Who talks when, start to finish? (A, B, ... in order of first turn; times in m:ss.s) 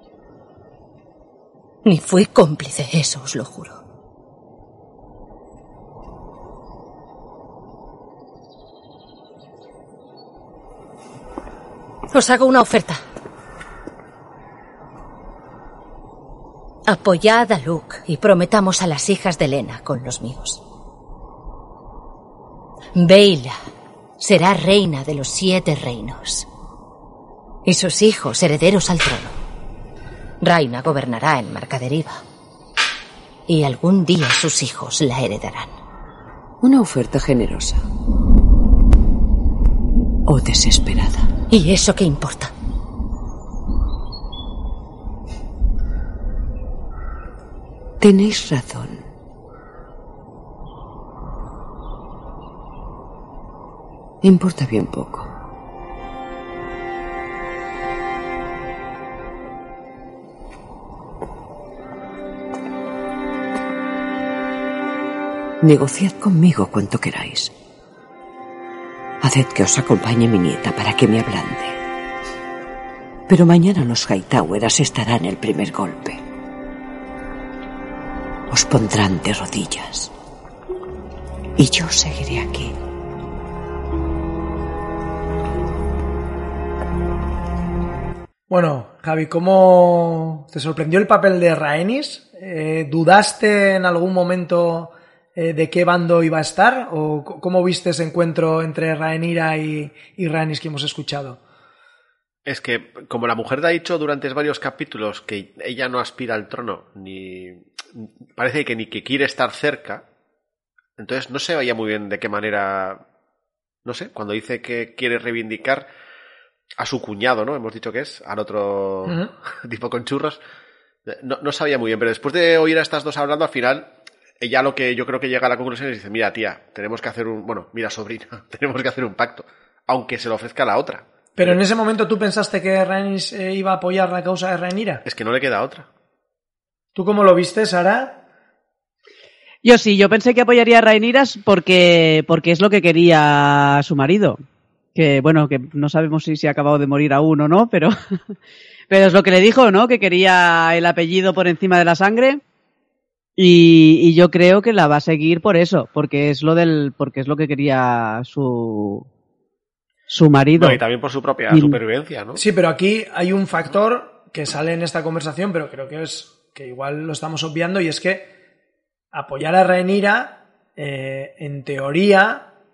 0:01.8-0:03.8 A
0:12.1-0:13.0 A
0:16.9-0:20.6 A
0:22.9-0:23.6 A
0:24.2-0:26.5 A
0:27.6-0:29.3 A
0:30.4-0:32.2 A
0:33.5-0:35.8 A
0:36.6-0:37.8 B
0:40.3-0:41.3 B
0:41.5-0:42.5 A
0:48.0-0:49.1 B
0:54.2-0:55.3 B
1:05.6-1:07.5 B
1:09.2-1:11.8 B
1:13.3-1:16.2 B
1:18.5-1:20.1 B
1:21.6-1:22.7 B
1:28.5-1:41.4 C
1:42.4-1:50.0 D
1:51.0-1:53.0 D
1:53.8-1:55.8 D
1:56.8-2:00.4 D
1:59.0-1:59.3 C
2:01.0-2:11.6 D
2:11.4-2:15.0 C
2:15.0-2:15.9 D
2:16.9-2:18.2 C
2:19.6-2:24.4 E
2:24.9-2:27.9 E
2:28.9-2:32.4 E
2:33.4-2:39.0 E
2:40.1-2:40.8 E
2:40.6-2:42.4 D
2:41.5-2:41.8 E
2:42.4-2:48.3 C
2:49.1-2:52.5 C